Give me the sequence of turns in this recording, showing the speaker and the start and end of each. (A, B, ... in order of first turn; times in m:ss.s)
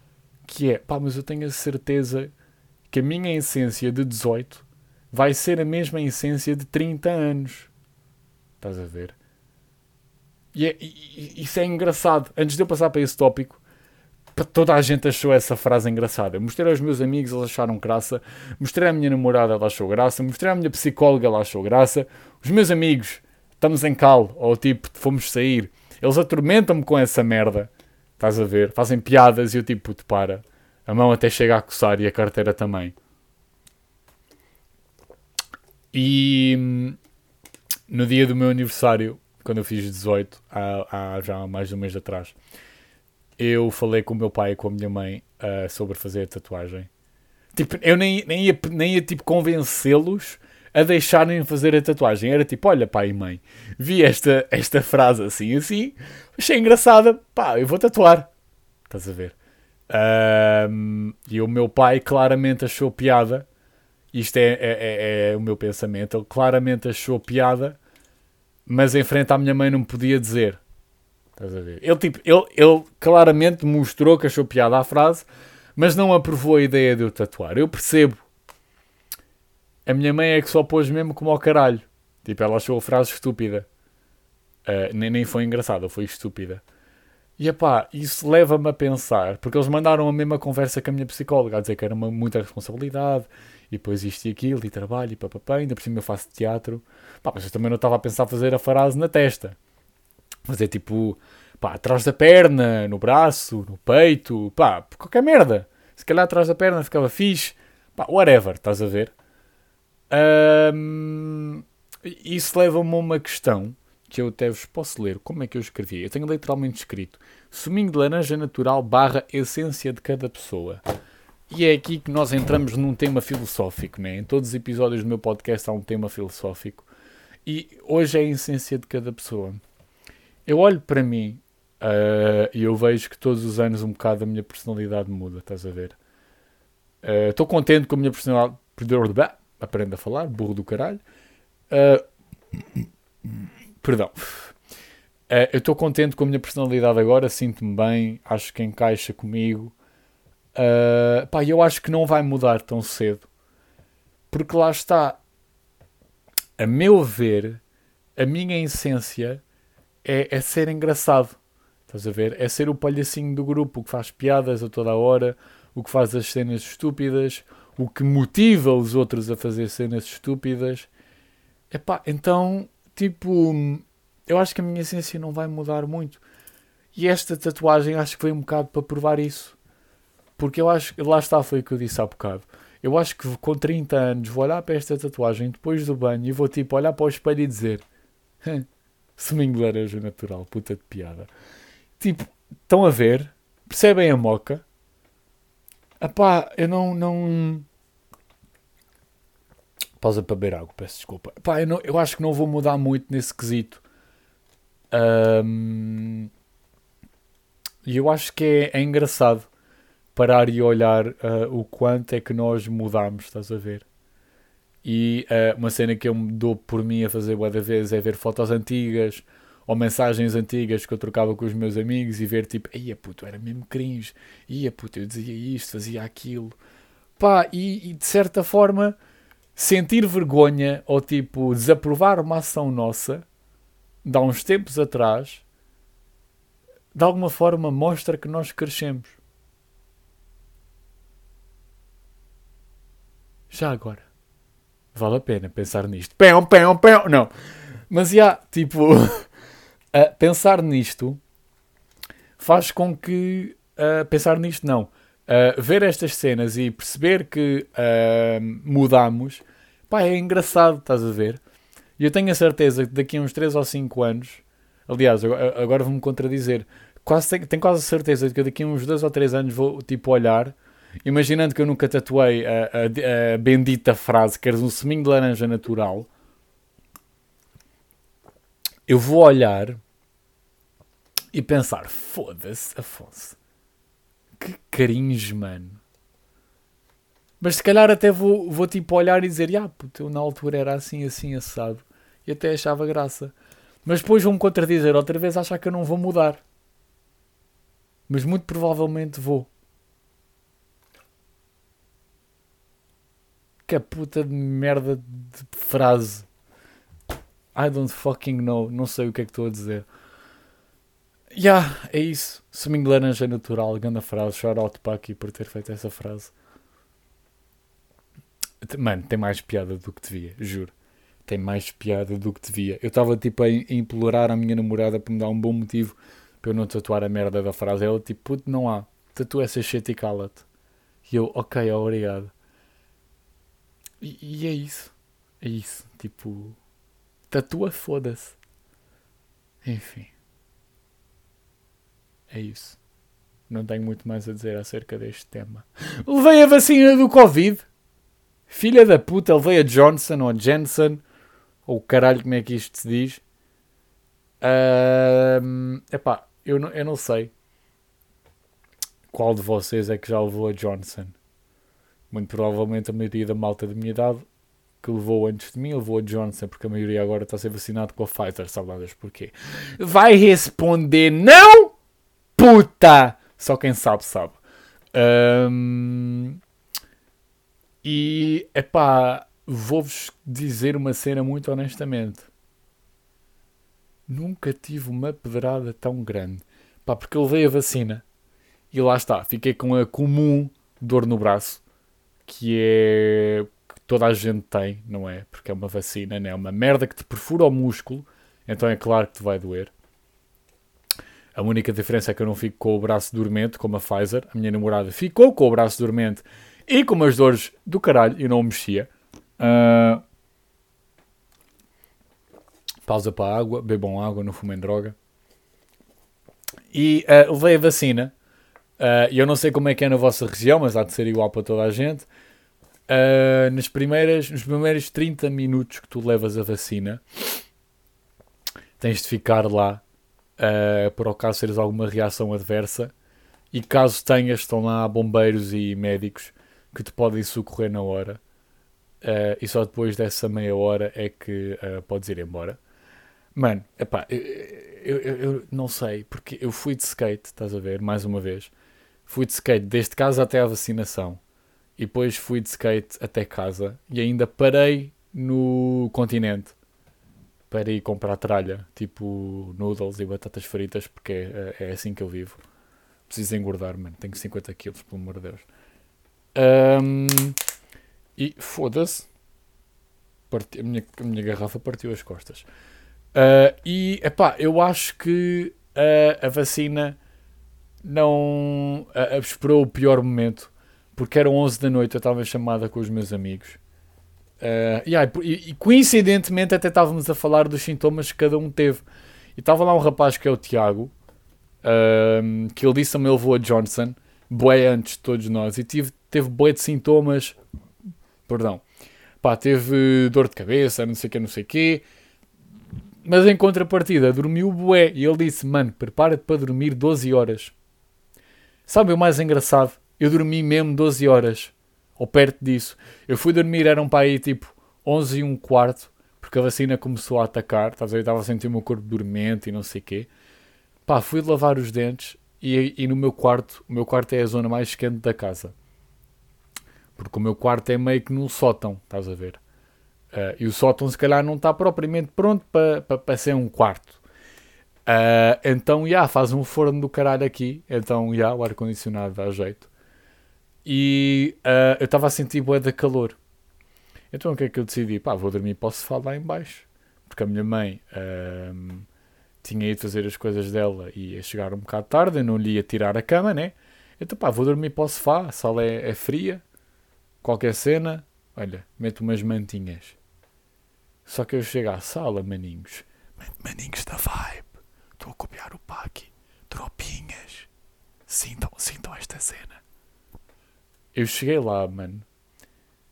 0:00.4-0:02.3 A
0:02.9-0:07.7 A
0:08.6-0:09.2 A
0:10.5-0:13.6 A
0:14.3-0:32.9 A
0:35.9-0:37.0 A
0:37.9-0:42.3 A
0:43.4-0:46.9 A
0:47.5-0:58.3 A
0:58.9-0:59.4 A
0:59.9-1:03.4 A
1:04.1-1:07.8 A
1:08.6-1:10.6 A
1:11.4-1:18.2 A
1:19.8-1:23.7 A
1:24.6-1:26.6 A
1:27.4-1:39.6 A
1:40.5-1:49.1 A
1:50.1-2:00.8 A
2:01.5-2:06.9 A
2:07.4-2:09.6 A
2:10.4-2:16.0 A
2:17.0-2:21.0 A
2:21.7-2:22.0 A
2:23.8-2:24.5 A
2:25.3-2:29.7 A
2:30.5-2:33.3 A
2:34.3-2:35.2 A
2:36.6-2:37.6 A
2:38.2-2:39.4 A
2:40.0-2:41.4 A
2:41.9-2:50.9 A
2:51.7-2:56.2 A
2:56.9-2:59.6 A
3:00.4-3:07.8 A
3:09.2-3:11.3 A
3:12.0-3:14.6 A
3:16.0-3:17.7 A
3:20.0-3:23.8 A
3:24.9-3:26.3 A
3:27.8-3:29.5 A
3:30.1-3:33.8 A
3:34.8-3:46.5 A
3:47.2-3:49.0 A
3:49.6-3:53.2 A
3:54.0-3:55.4 A
3:56.9-3:59.2 A
4:03.5-4:04.0 A
4:04.9-4:07.3 A
4:07.9-4:09.3 A
4:09.9-4:11.2 A
4:12.4-4:21.4 A
4:22.0-4:36.1 A
4:38.9-4:39.8 A
4:41.3-4:43.4 A
4:44.4-4:45.8 A
4:47.4-4:53.3 A
4:53.8-4:56.4 A
4:58.1-4:59.5 A
5:03.6-5:06.3 A
5:07.5-5:09.8 A
5:11.3-5:16.3 A
5:18.6-5:20.7 A
5:21.2-5:30.4 A
5:31.0-5:32.3 A
5:34.0-5:36.6 A
5:37.3-5:38.4 A
5:39.6-5:40.1 A
5:42.3-5:42.8 A
5:43.5-5:47.6 A
5:48.5-5:51.0 A
5:51.6-5:53.2 A
5:54.4-5:57.3 A
5:59.1-6:01.1 A
6:02.1-6:04.2 A
6:04.8-6:11.7 A
6:12.4-6:14.4 A
6:14.9-6:16.4 A
6:17.8-6:22.3 A
6:24.1-6:28.0 A
6:28.7-6:31.6 A
6:32.2-6:39.7 A
6:41.3-6:50.0 A
6:52.8-6:55.0 A
6:56.7-6:58.1 A
6:58.8-7:02.1 A
7:02.9-7:07.4 A
7:08.8-7:09.8 A
7:10.4-7:12.9 A
7:13.5-7:18.2 A
7:19.0-7:22.6 A
7:23.3-7:28.5 A
7:29.0-7:31.2 A
7:31.8-7:36.5 A
7:37.5-7:42.4 A
7:43.1-7:45.4 A
7:46.3-7:47.4 A
7:48.2-7:49.1 A
7:50.3-7:52.5 A
7:53.1-7:57.0 A
7:57.8-8:03.6 A
8:04.4-8:08.8 A
8:09.4-8:10.9 A
8:11.6-8:17.4 A
8:18.3-8:18.6 A
8:19.2-8:21.8 A
8:23.0-8:27.5 A
8:28.7-8:40.1 A
8:40.8-8:45.5 A
8:47.0-8:49.4 A
8:50.1-8:54.0 A
8:54.8-8:59.7 A
9:00.6-9:03.2 A
9:04.1-9:08.9 A
9:09.4-9:16.4 A
9:17.2-9:20.0 A
9:21.0-9:22.9 A
9:23.4-9:27.5 A
9:28.1-9:29.6 A
9:30.9-9:32.0 A